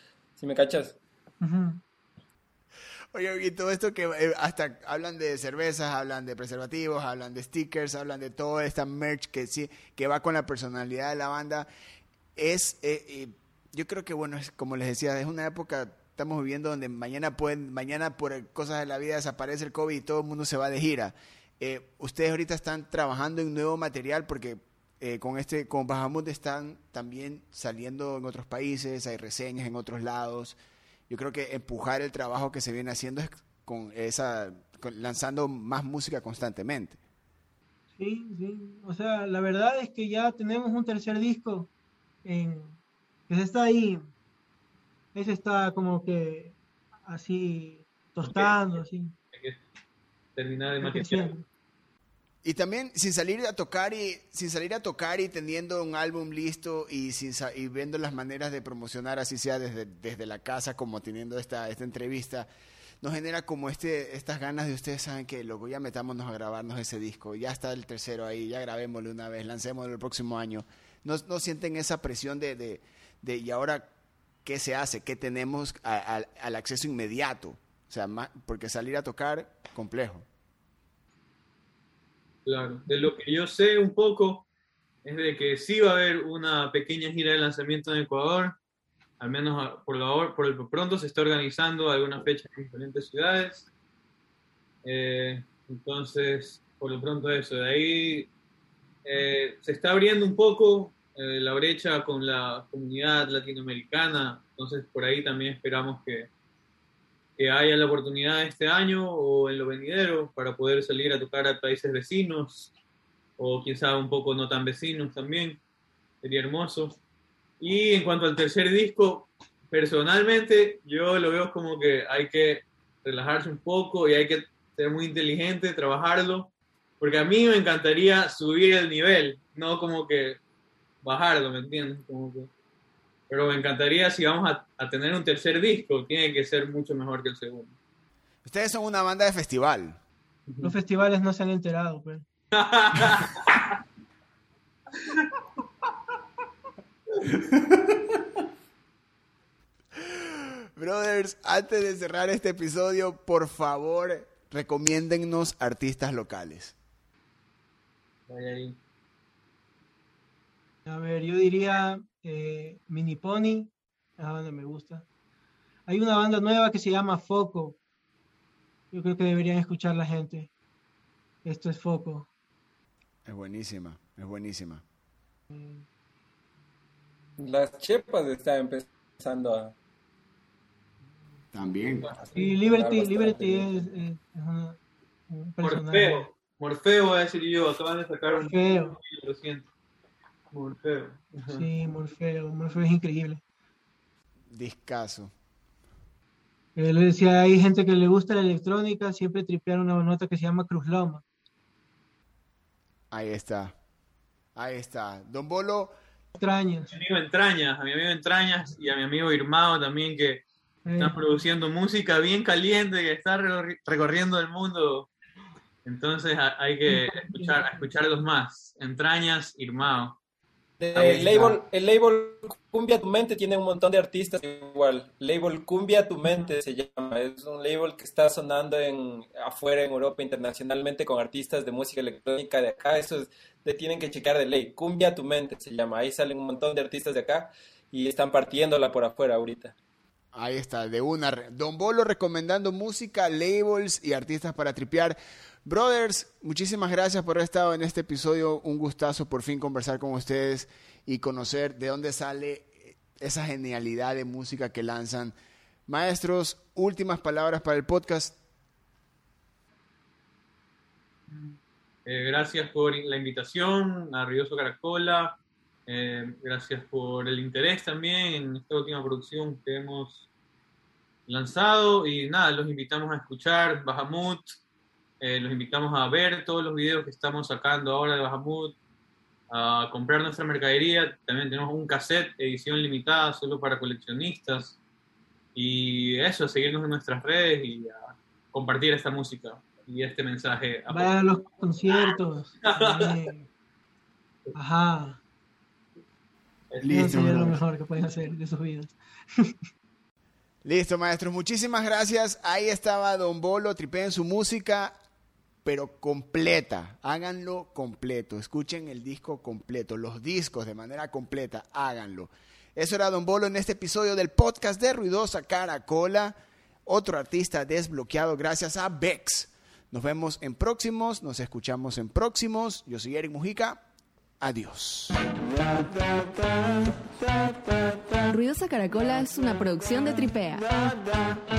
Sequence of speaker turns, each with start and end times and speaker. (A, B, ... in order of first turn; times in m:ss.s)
0:00.4-0:01.0 A
0:01.4-0:01.8 B
0:03.1-0:11.7 C
0:12.4-0:30.6 C
0:31.1-0:37.0 C
0:38.0-0:41.7 B
0:42.2-0:42.8 B
0:43.3-0:44.1 B
0:45.2-0:49.2 B
0:48.2-0:48.6 D
0:49.3-0:49.6 D
0:50.4-0:51.3 D
0:50.8-0:51.4 B
0:52.4-1:02.5 C
1:03.0-1:13.9 C
1:14.4-1:20.3 C
1:22.5-1:24.5 D
1:25.0-1:28.6 D
1:29.2-1:33.7 D
1:34.8-1:38.3 D
1:39.0-1:46.3 D
1:47.4-1:52.7 D
1:53.4-1:55.6 D
1:56.2-1:57.0 D
1:57.6-2:10.4 D
2:11.0-2:12.5 D
2:13.3-2:17.8 D
2:18.4-2:20.0 C
2:20.5-2:20.7 D
2:20.6-2:22.2 B
2:22.5-2:23.8 D
2:25.0-2:25.3 D
2:27.3-2:27.8 C
2:30.0-2:36.8 C
2:38.3-2:38.8 D
2:40.9-2:45.0 B
2:45.9-2:47.8 B
2:48.9-2:50.5 B
2:51.4-2:52.3 B
2:53.3-2:54.8 C
2:55.5-2:55.8 B
2:57.4-2:59.8 A
3:01.5-3:02.1 C
3:02.1-3:03.7 A
3:02.4-3:04.8 B
3:05.3-3:06.3 B
3:05.6-3:09.7 D
3:08.3-3:09.0 B
3:10.5-3:11.7 D
3:11.5-3:13.4 B
3:14.5-3:15.3 C
3:16.8-3:21.2 B
3:23.1-3:23.8 C
3:24.6-3:25.9 C
3:26.4-3:26.9 B
3:26.9-3:30.4 D
3:30.9-3:31.2 B
3:31.0-3:35.1 D
3:35.8-3:40.2 D
3:36.9-3:37.6 B
3:40.8-3:59.7 A
3:40.9-3:41.6 D
4:00.3-4:15.3 C
4:15.9-4:18.4 C
4:22.1-4:30.3 D
4:31.3-4:34.6 D
4:35.2-4:38.8 D
4:39.5-4:44.8 D
4:45.6-4:51.1 D
4:50.9-4:53.5 B
4:52.7-4:53.1 D
4:54.6-4:55.2 B
4:56.7-4:57.5 D
4:56.8-4:57.6 C
4:56.9-4:59.6 B
5:00.6-5:04.9 C
5:05.6-5:16.4 C
5:16.9-5:23.8 C
5:24.4-5:25.2 C
5:28.3-5:30.7 E